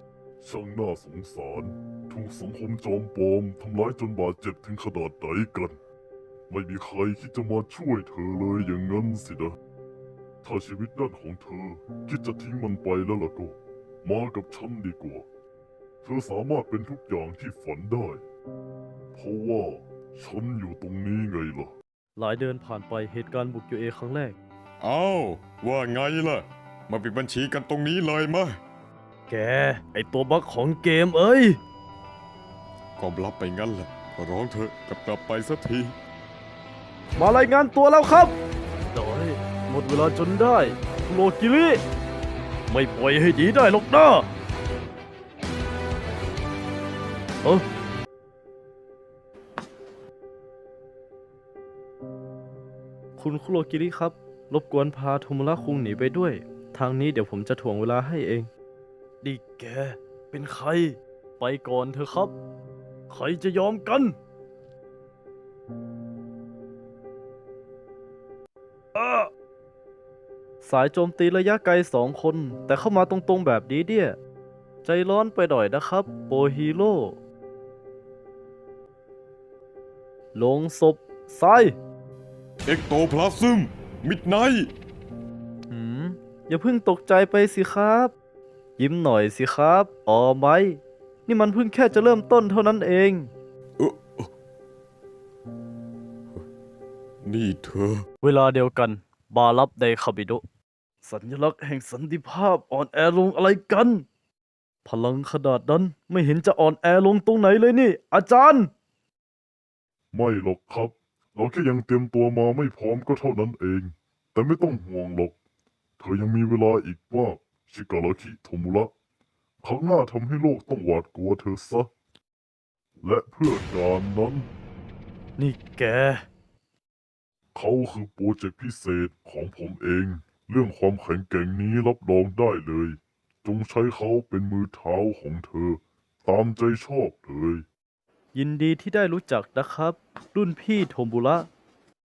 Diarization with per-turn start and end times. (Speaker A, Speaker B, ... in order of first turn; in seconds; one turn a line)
Speaker A: 0.4-5.8
Speaker A: 6.5-9.6
Speaker A: 10.4-15.3
Speaker A: 16.0-18.2
Speaker A: 19.1-21.7
Speaker B: 22.2-24.4
Speaker C: 24.8-28.6
Speaker B: 29.3-31.6
Speaker C: 33.0-36.0
Speaker B: 37.2-38.4
Speaker B: 38.9-41.8
Speaker B: 42.7-44.3
Speaker B: 53.2-58.5
Speaker B: 59.2-62.4
Speaker B: 63.1-64.2
Speaker B: 69.0-69.3
Speaker B: 70.6-74.2
Speaker B: 74.8-77.2
Speaker B: 80.3-81.8
Speaker C: 82.7-84.7
Speaker B: 85.7-88.1
Speaker B: 88.8-93.3
Speaker C: 93.8-94.3
Speaker C: 97.2-98.1
Speaker B: 98.2-100.4
Speaker B: 101.0-104.1
Speaker B: 104.8-108.7
Speaker A: 110.1-115.4
Speaker A: 116.0-118.9
Speaker A: 119.6-121.9
Speaker A: 123.0-124.5
Speaker B: 125.4-126.3
Speaker A: 127.5-137.7
Speaker B: 138.3-141.5